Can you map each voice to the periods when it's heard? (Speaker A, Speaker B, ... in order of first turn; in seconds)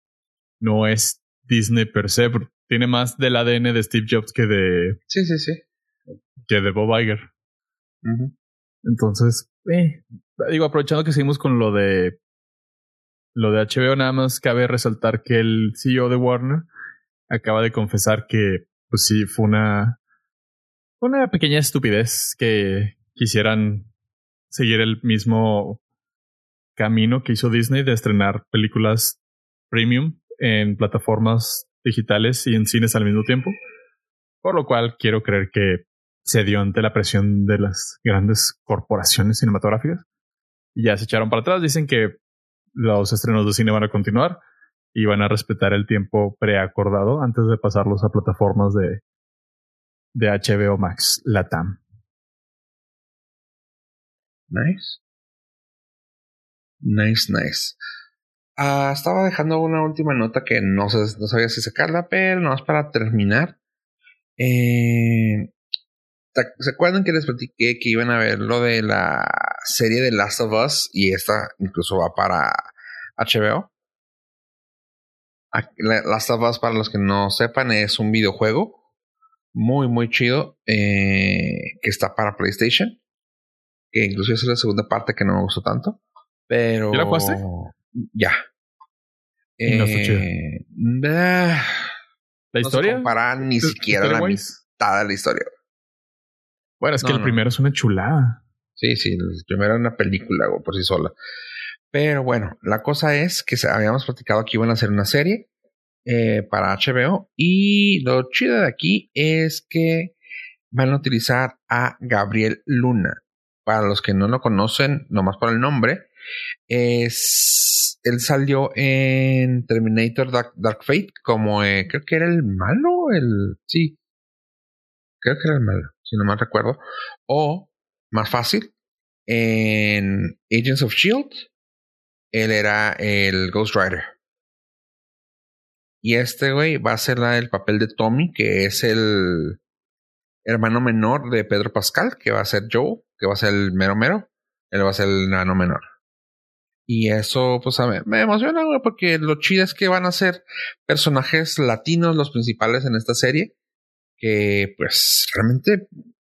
Speaker A: 0.6-5.0, 6.5-7.3, 8.8-12.2, 13.3-16.7, 17.3-20.0, 21.0-23.9, 24.5-25.8, 26.8-29.2, 29.7-33.6, 34.4-40.0, 40.7-42.2, 42.7-44.4, 44.9-49.0, 50.1-51.8, 86.9-87.4, 89.7-90.3, 92.5-94.6, 96.8-98.4
Speaker B: 5.1-5.6, 8.0-8.3, 54.5-55.0, 56.8-57.8, 58.6-63.6, 64.4-65.5, 66.3-73.7, 75.5-78.8, 79.5-83.0, 83.9-88.4, 89.6-91.9, 92.6-95.5, 97.0-97.4, 98.8-101.1, 101.9-105.5, 106.1-110.1, 110.7-116.1, 116.7-124.0, 125.2-128.7, 129.3-131.5, 132.3-134.1, 136.0-139.6, 140.4-145.8, 146.9-153.5, 154.2-155.9